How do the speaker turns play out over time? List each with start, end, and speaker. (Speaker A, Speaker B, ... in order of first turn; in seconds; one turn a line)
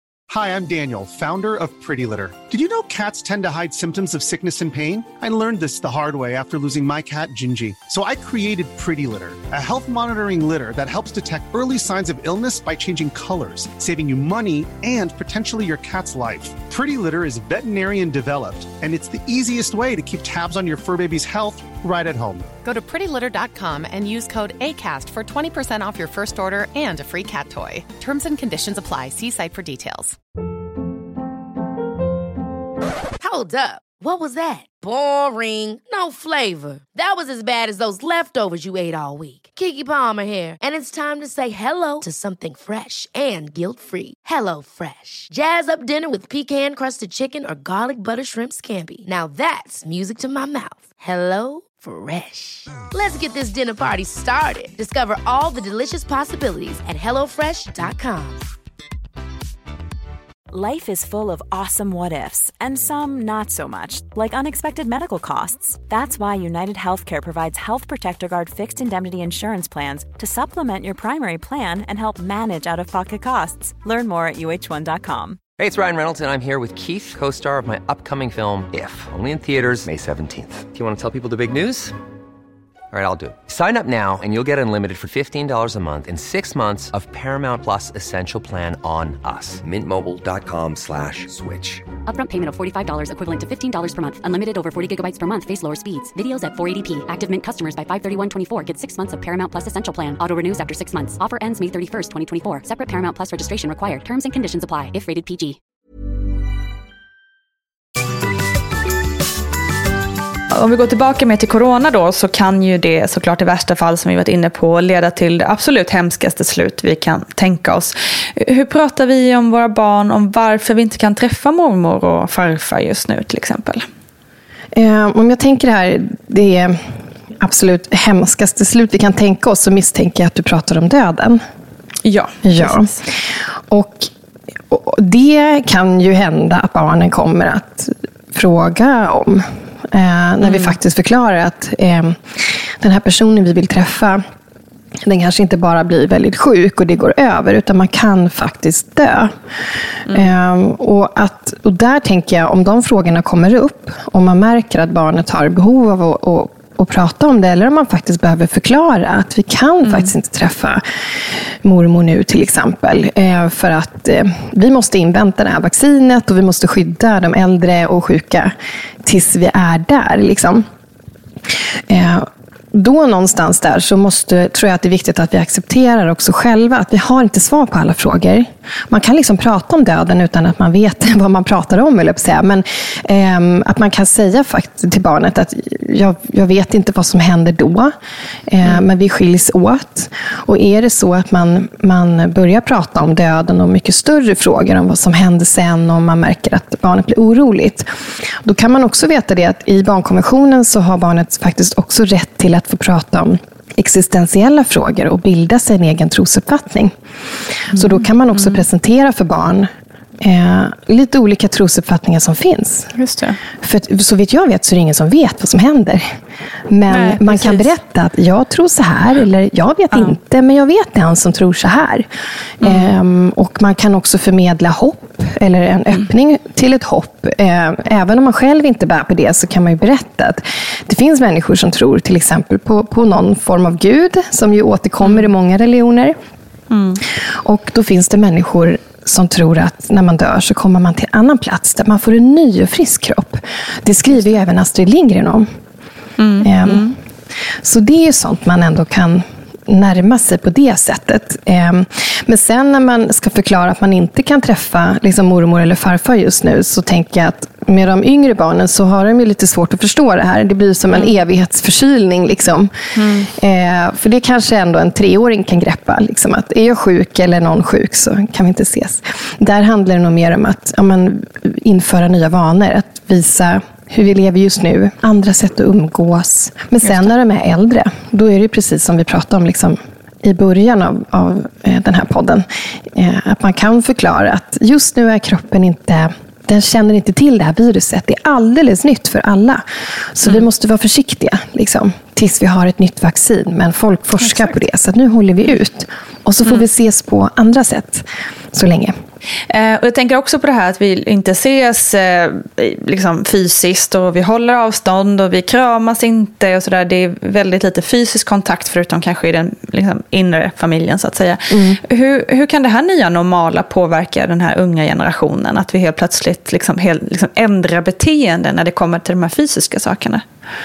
Speaker A: 0.3-22.5
Speaker B: 22.6-30.2
Speaker C: 33.2-58.4
Speaker D: 60.5-75.4
Speaker E: 75.6-81.9
Speaker E: 82.9-91.8
Speaker F: 92.0-105.6
Speaker G: 110.5-123.8
Speaker H: 124.7-126.8
Speaker H: 127.4-131.4
Speaker G: 132.0-133.0
Speaker H: 132.4-132.9
Speaker H: 133.7-134.1
Speaker H: 134.7-144.2
Speaker G: 140.4-140.7
Speaker H: 145.0-149.3
Speaker H: 150.1-160.8
Speaker G: 159.8-160.1
Speaker H: 161.6-170.6
Speaker H: 171.9-187.9
Speaker H: 188.5-206.9
Speaker G: 207.7-208.6
Speaker H: 207.7-209.7
Speaker H: 210.2-212.9
Speaker G: 212.9-213.4
Speaker H: 213.6-216.1
Speaker H: 216.7-222.1
Speaker G: 216.9-217.7
Speaker H: 222.6-236.1
Speaker G: 222.6-222.9
Speaker G: 235.0-235.3
Speaker G: 236.7-237.0
Speaker H: 237.2-245.5
Speaker G: 246.2-246.9
Speaker H: 246.4-246.9
Speaker H: 247.6-262.7
Speaker G: 262.9-263.3
Speaker H: 263.3-298.9
Speaker G: 276.8-277.1
Speaker G: 294.2-294.5
Speaker G: 299.5-320.2
Speaker H: 311.5-311.8